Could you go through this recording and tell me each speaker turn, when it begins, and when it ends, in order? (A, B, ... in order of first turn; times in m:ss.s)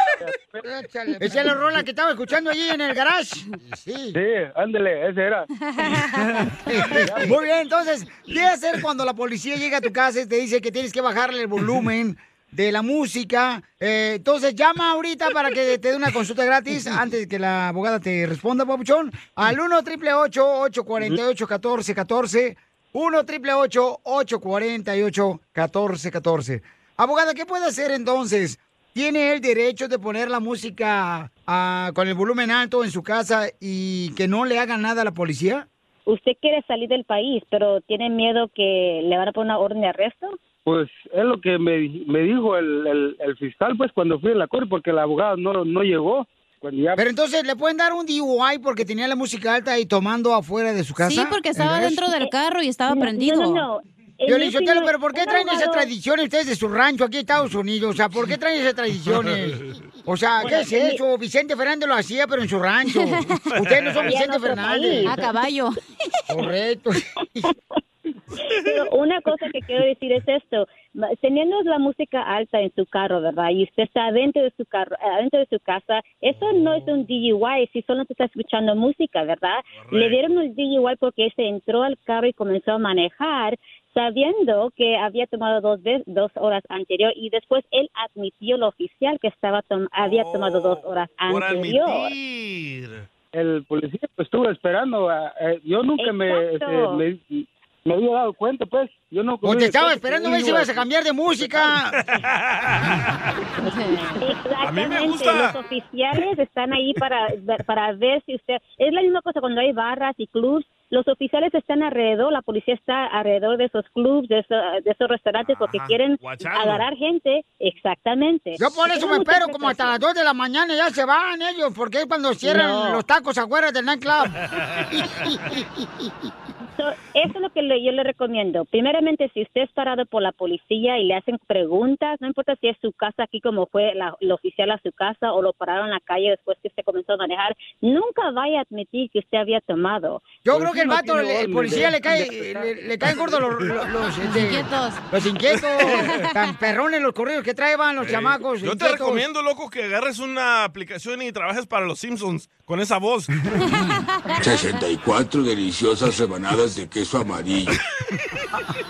0:00.2-0:00.7 A
0:00.6-0:04.2 B
0:01.2-0:01.5 A
0:04.1-0:05.5 A
0:05.6-0:06.1 C
0:06.4-0:35.6 B
0:06.8-0:07.4 A
0:36.1-0:40.3 D
0:40.6-0:47.0 A
0:47.0-0:52.0 B
0:51.0-0:53.6 C
0:52.9-0:55.9 D
0:54.3-1:05.2 B
1:00.4-1:01.0 D
1:03.0-1:03.4 C
1:03.5-1:04.1 E
1:04.1-1:05.1 D
1:05.1-1:05.8 C
1:06.3-1:07.5 B
1:08.4-1:32.1 D
1:19.7-1:20.4 E
1:30.0-1:33.0 E
1:33.3-1:41.7 A
1:36.0-1:37.0 D
1:39.4-1:42.0 B
1:42.1-1:43.2 E
1:43.7-1:44.2 C
1:44.2-2:00.0 D
1:44.6-1:45.6 E
1:55.4-1:56.9 E
1:58.6-2:04.4 B
2:02.6-2:03.0 C
2:04.4-2:05.5 E
2:06.8-2:20.3 D
2:20.4-2:29.2 B
2:20.5-2:22.7 A
2:24.2-2:25.0 C
2:25.6-2:25.9 E
2:28.0-2:33.3 E
2:33.6-2:34.8 C
2:34.4-2:37.7 F